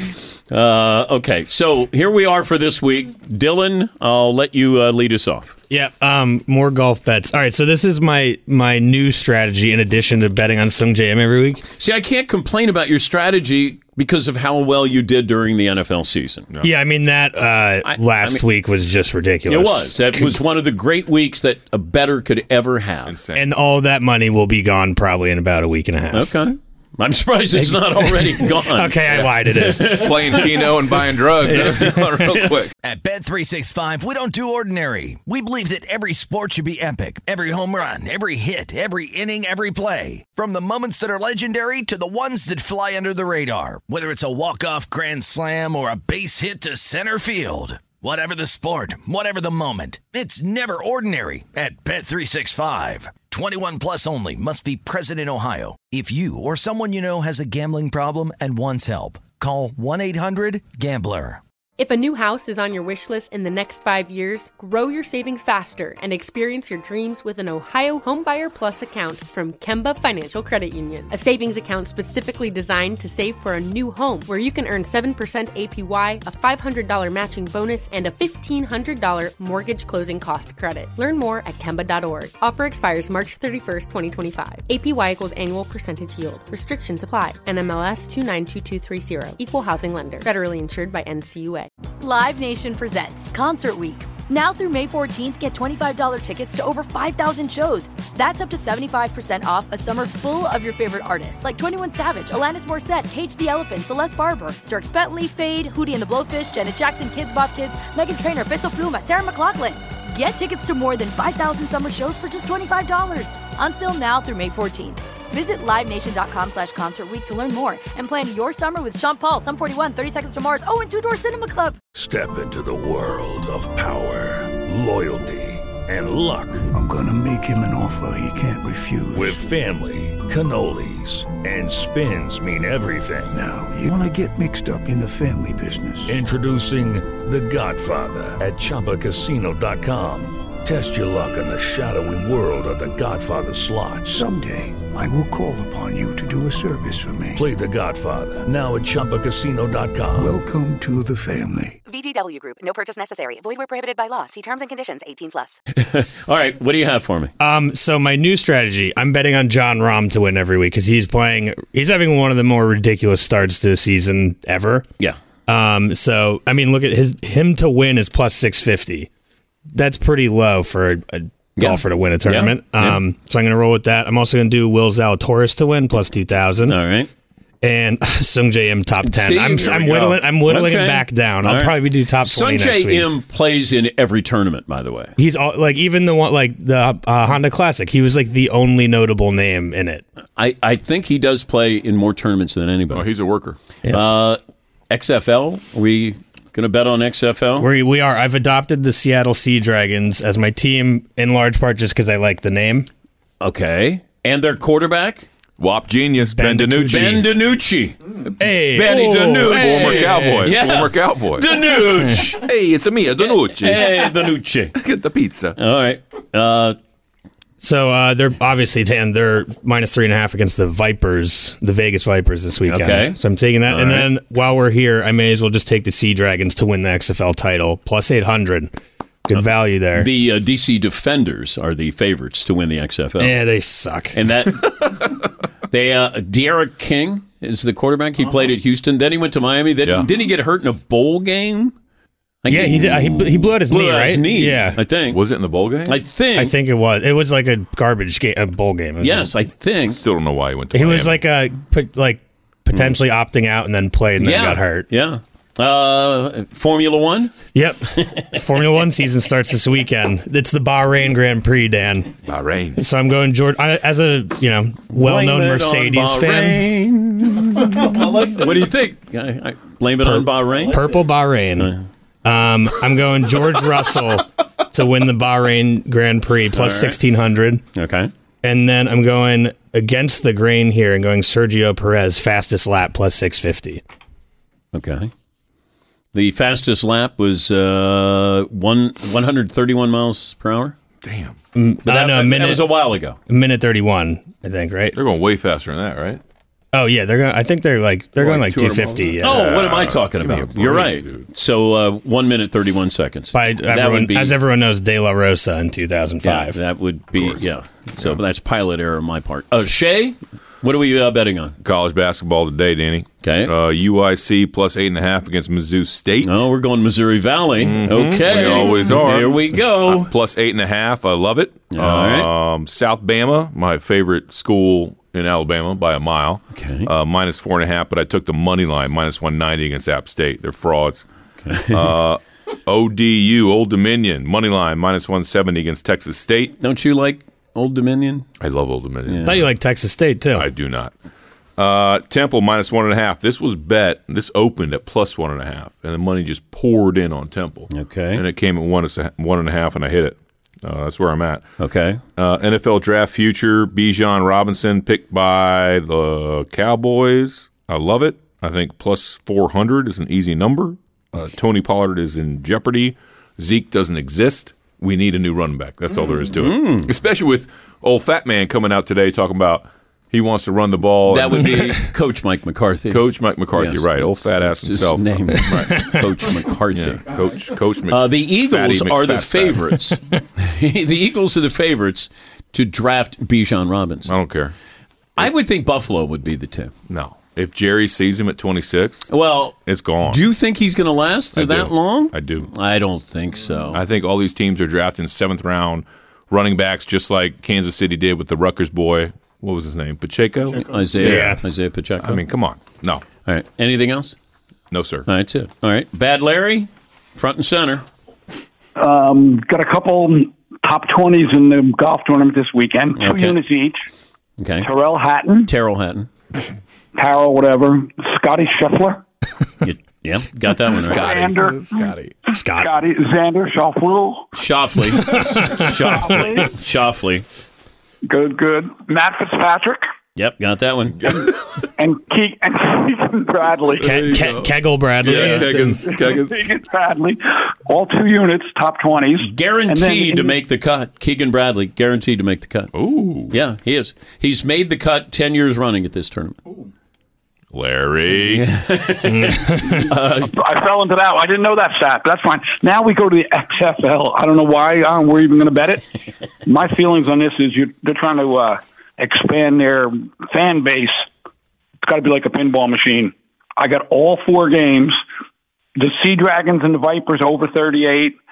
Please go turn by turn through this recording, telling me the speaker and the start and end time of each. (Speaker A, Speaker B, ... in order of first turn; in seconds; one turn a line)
Speaker A: 0.5-5.5
Speaker B: 5.7-11.7
Speaker A: 11.8-16.5
Speaker B: 16.6-20.4
Speaker A: 17.9-18.4
Speaker A: 19.5-23.2
Speaker C: 23.1-23.5
Speaker B: 23.4-26.4
Speaker A: 26.1-30.7
Speaker B: 27.6-30.1
Speaker C: 29.9-32.7
Speaker B: 31.4-32.2
Speaker D: 32.8-61.4
Speaker E: 61.8-91.7
Speaker F: 92.0-121.8
Speaker G: 121.9-126.7
Speaker H: 126.7-129.4
Speaker G: 129.1-133.4
Speaker H: 133.3-136.2
Speaker G: 136.1-144.2
Speaker H: 144.1-147.5
Speaker G: 147.3-150.3
Speaker H: 150.2-151.8
Speaker I: 151.9-155.6
Speaker A: 155.7-157.3
Speaker B: 157.4-164.9
Speaker B: 165.5-169.1
Speaker B: 169.7-176.8
Speaker A: 171.6-173.0
Speaker A: 176.7-177.1
Speaker B: 177.6-183.1
Speaker A: 179.0-185.2
Speaker B: 185.2-190.0
Speaker A: 190.4-193.1
Speaker C: 192.9-193.6
Speaker A: 193.9-197.7
Speaker B: 197.6-202.9
Speaker A: 203.4-205.3
Speaker C: 205.6-207.2
Speaker B: 206.3-207.3
Speaker A: 206.9-212.5
Speaker B: 208.4-210.4
Speaker C: 209.3-211.5
Speaker C: 212.3-213.9
Speaker A: 213.2-214.8
Speaker C: 214.8-215.6
Speaker A: 215.6-216.8
Speaker B: 217.6-228.7
Speaker A: 222.7-223.2
Speaker A: 223.7-224.1
Speaker B: 229.3-230.1
Speaker A: 229.9-233.4
Speaker B: 233.2-234.2
Speaker A: 234.1-234.9
Speaker A: 235.7-241.8
Speaker A: 242.4-245.2
Speaker B: 242.5-244.8
Speaker C: 245.1-246.0
Speaker A: 245.8-246.5
Speaker B: 246.3-249.3
Speaker A: 249.0-250.0
Speaker C: 249.9-251.2
Speaker B: 250.7-254.9
Speaker A: 254.2-257.3
Speaker B: 257.5-262.1
Speaker C: 262.3-262.8
Speaker B: 262.8-266.7
Speaker A: 264.9-270.9
Speaker B: 270.0-277.6
Speaker A: 271.6-271.9
Speaker A: 276.6-277.0
Speaker A: 277.7-278.1
Speaker B: 278.4-283.8
Speaker A: 284.7-285.1
Speaker A: 286.1-290.8
Speaker C: 291.0-291.4
Speaker B: 291.6-292.7
Speaker A: 291.9-293.2
Speaker B: 293.3-295.0
Speaker C: 294.9-296.2
Speaker B: 296.7-299.6
Speaker C: 298.2-301.3
Speaker A: 299.2-304.4
Speaker B: 303.3-306.6
Speaker A: 306.2-311.6
Speaker C: 307.2-307.4
Speaker C: 311.6-316.5
Speaker A: 313.2-313.5
Speaker A: 316.2-320.1
Speaker C: 317.6-331.1
Speaker A: 321.7-322.3
Speaker A: 326.5-326.9
Speaker A: 331.4-331.9
Speaker C: 331.7-336.6
Speaker A: 336.6-338.3
Speaker C: 338.4-339.5
Speaker A: 339.1-339.4
Speaker B: 339.2-340.5
Speaker C: 340.4-340.9
Speaker C: 341.6-351.4
Speaker A: 347.7-348.2
Speaker A: 351.6-352.0
Speaker C: 352.2-371.8
Speaker A: 366.4-366.9
Speaker A: 371.1-377.1
Speaker C: 372.9-376.0
Speaker C: 376.7-379.8
Speaker A: 377.9-384.1
Speaker C: 384.1-384.5
Speaker A: 385.2-386.7
Speaker C: 386.9-390.2
Speaker A: 389.1-393.8
Speaker C: 391.4-392.5
Speaker C: 393.7-401.4
Speaker A: 400.5-402.2
Speaker B: 401.0-401.4
Speaker C: 402.0-403.0
Speaker A: 403.2-404.2
Speaker C: 404.7-405.1
Speaker A: 405.1-407.9
Speaker J: 408.8-413.8
Speaker A: 413.0-413.4
Speaker A: 414.4-414.7
Speaker J: 414.6-415.5
Speaker A: 415.4-416.1
Speaker J: 416.9-419.0
Speaker A: 419.6-421.1
Speaker C: 420.7-422.2
Speaker J: 420.9-424.3
Speaker B: 422.3-422.7
Speaker A: 424.3-427.3
Speaker B: 425.0-425.9
Speaker J: 425.9-426.5
Speaker J: 428.1-429.9
Speaker A: 430.2-431.0
Speaker C: 431.0-431.3
Speaker J: 431.8-434.1
Speaker C: 433.8-436.4
Speaker B: 433.8-435.8
Speaker J: 435.8-440.4
Speaker A: 439.2-446.4
Speaker C: 442.7-443.4
Speaker C: 447.5-448.4
Speaker A: 448.1-450.4
Speaker B: 449.3-449.8
Speaker J: 450.2-455.8
Speaker J: 456.4-461.1
Speaker J: 461.8-465.0
Speaker J: 465.8-468.1